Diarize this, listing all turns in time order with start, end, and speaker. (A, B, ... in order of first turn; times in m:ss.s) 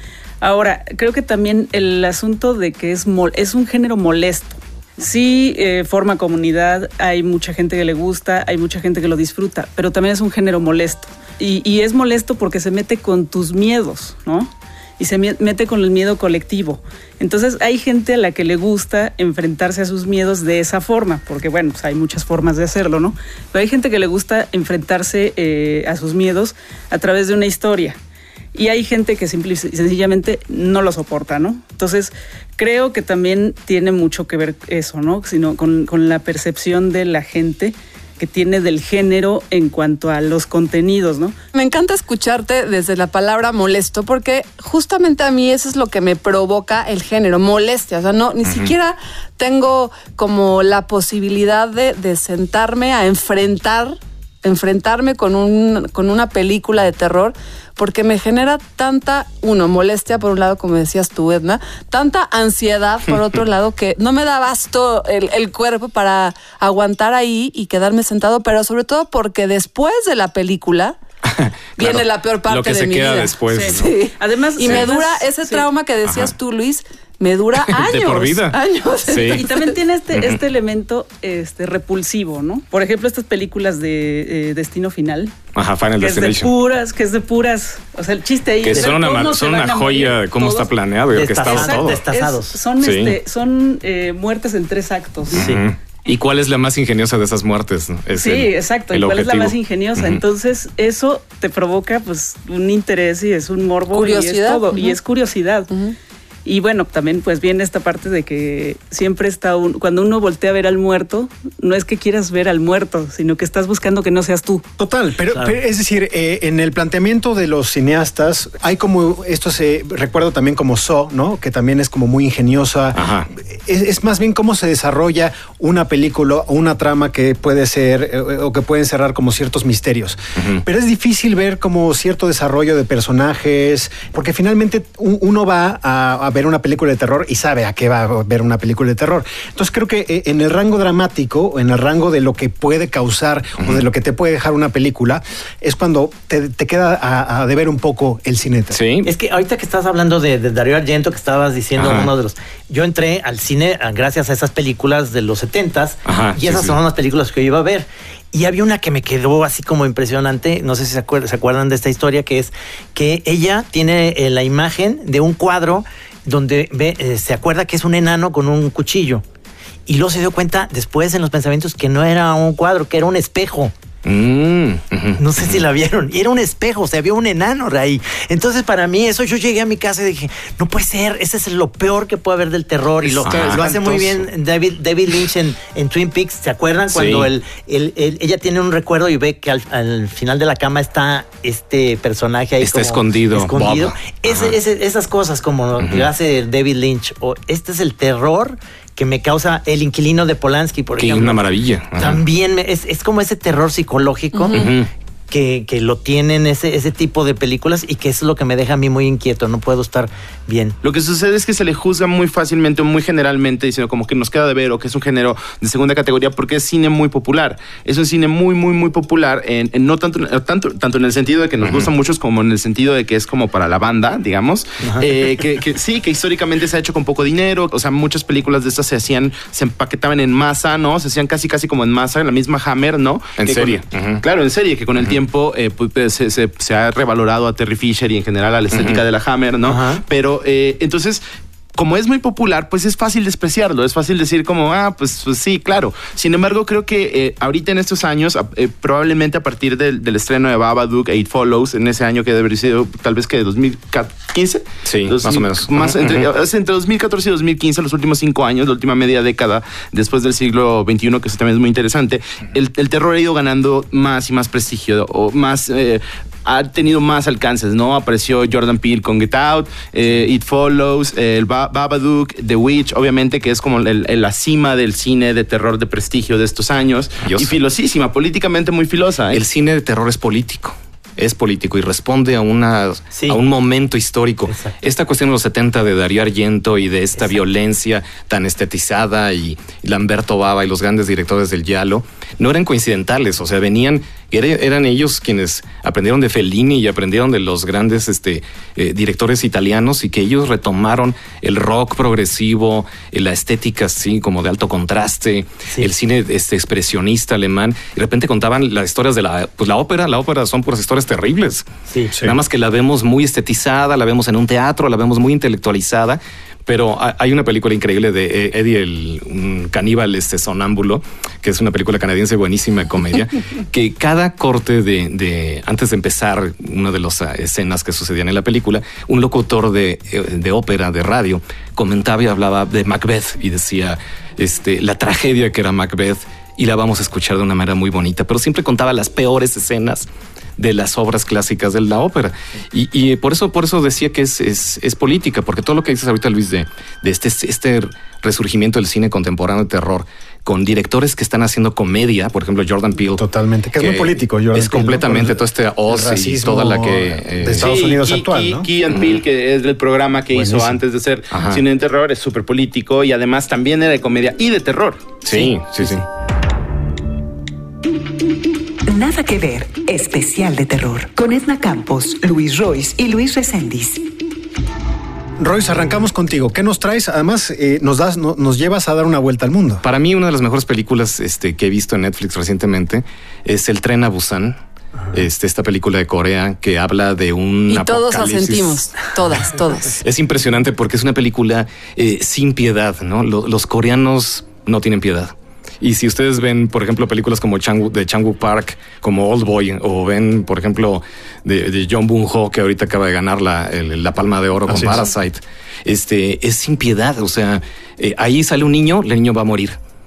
0:00.4-0:28.0 A
0:28.5-0:41.3 A
0:41.5-1:11.0 B
0:48.4-0:48.7 C
1:11.3-1:13.9 C
1:11.8-1:19.7 B
1:13.5-1:15.7 A
1:14.6-1:14.9 C
1:16.0-1:16.3 C
1:17.6-1:19.4 C
1:19.3-1:25.3 A
1:20.1-1:20.4 C
1:25.5-1:26.5 C
1:26.0-1:30.7 A
1:28.6-1:32.0 C
1:31.1-1:32.6 D
1:31.4-1:35.4 A
1:32.8-1:33.2 C
1:35.3-1:40.2 C
1:35.4-1:35.6 D
1:38.2-1:45.7 A
1:43.9-1:45.0 B
1:46.4-1:54.6 A
1:54.8-2:28.8 E
2:02.9-2:03.3 C
2:10.4-2:10.6 C
2:28.7-2:29.1 C
2:29.0-2:49.2 D
2:31.7-2:32.1 C
2:36.0-2:36.8 C
2:49.9-2:53.7 D
2:54.0-2:55.6 C
2:55.2-3:21.4 D
3:03.0-3:04.0 F
3:03.2-3:04.1 C
3:06.9-3:07.3 C
3:12.6-3:14.6 C
3:15.8-3:16.1 C
3:20.9-3:22.2 C
3:22.0-3:24.6 D
3:24.3-3:24.7 B
3:24.5-3:24.9 C
3:25.3-3:30.8 D
3:30.8-4:01.2 F
3:41.6-3:41.9 C
3:53.4-3:54.2 C
3:58.7-3:59.0 C
3:59.6-4:00.0 D
4:01.7-4:39.4 F
4:14.8-4:16.3 C
4:37.2-4:37.6 C
4:39.3-5:11.6 C
4:43.1-4:43.4 D
4:44.5-4:44.8 D
5:11.9-5:12.1 D
5:12.2-5:53.2 C
5:53.2-5:58.7 E
5:53.8-5:57.8 C
5:57.5-6:05.2 F
5:58.9-5:59.2 C
6:00.4-6:00.7 E
6:01.3-6:01.6 C
6:05.2-6:06.0 C
6:08.9-6:14.0 G
6:15.4-6:19.8 E
6:19.8-6:24.6 C
6:25.1-6:29.1 C
6:27.7-6:30.0 B
6:30.0-6:49.8 C
6:44.7-6:45.0 E